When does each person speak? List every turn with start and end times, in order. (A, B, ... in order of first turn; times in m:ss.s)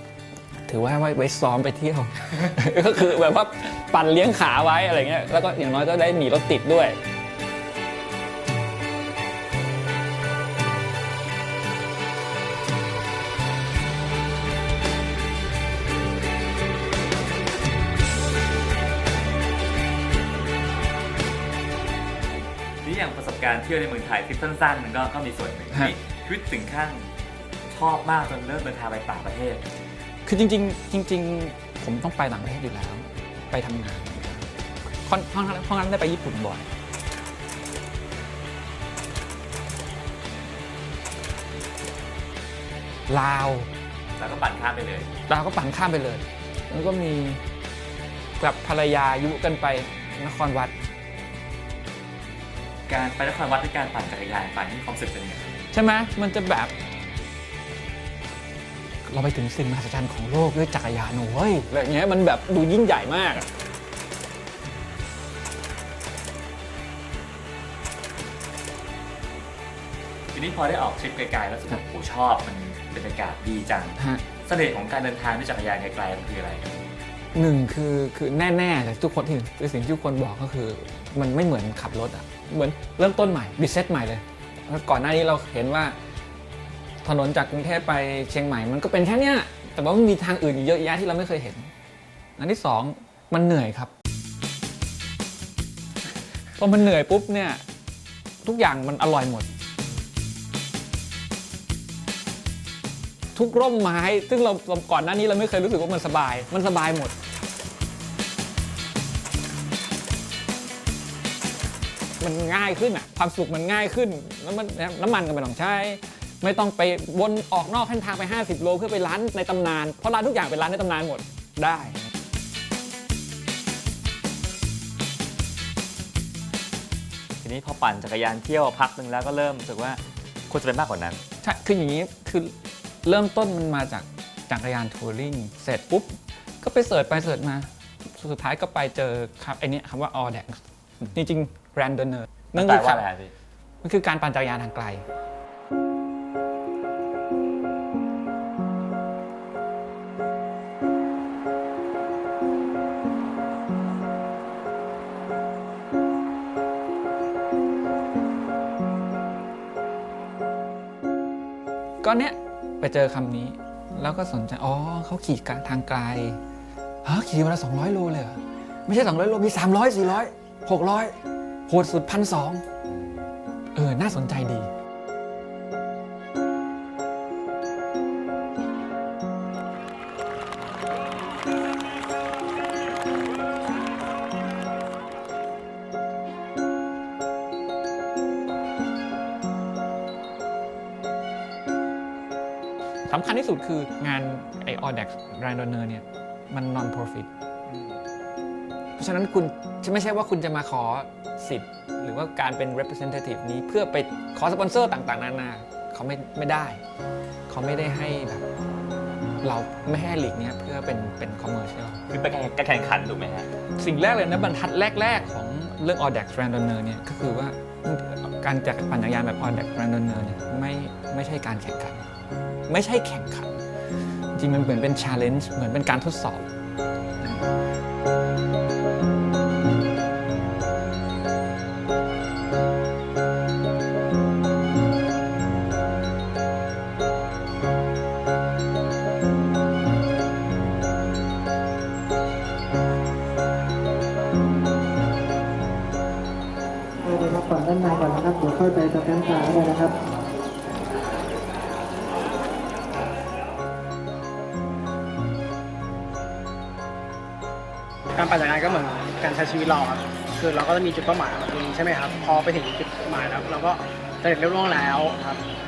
0:00.7-0:07.0 A
0:22.8-0:27.1 B
0:27.7-0:29.7 B
0:30.2-0:34.4 A
0:35.0-0:36.7 A
0:43.1-0:43.7 A
0:44.2-0:45.1 B
0:45.3-0:47.4 A
0:48.4-0:50.8 A
0:52.9-0:55.6 B
0:55.7-0:56.7 A
0:59.0-1:03.4 A
1:10.3-1:16.9 B
1:14.0-1:14.2 A
1:17.3-1:26.0 A
1:27.0-1:31.7 A
1:32.4-1:33.9 A
1:36.6-1:37.6 A
1:38.4-1:39.5 A
1:43.3-1:47.1 A
1:52.2-2:02.1 A
2:07.4-2:11.2 B
2:11.4-2:23.0 A
2:22.5-2:23.3 B
2:23.8-2:25.0 A
2:42.0-2:46.4 A
2:47.0-2:52.6 A
2:53.7-2:54.7 A
3:13.1-3:17.3 A
3:19.0-3:26.8 A
3:27.5-3:28.4 A
3:29.4-3:32.0 A
3:32.1-3:33.5 B
3:33.8-3:42.1 A
3:42.7-3:43.6 A
3:44.3-3:46.5 A
3:47.2-3:47.5 A
4:07.0-4:09.9 C
4:18.1-4:25.4 D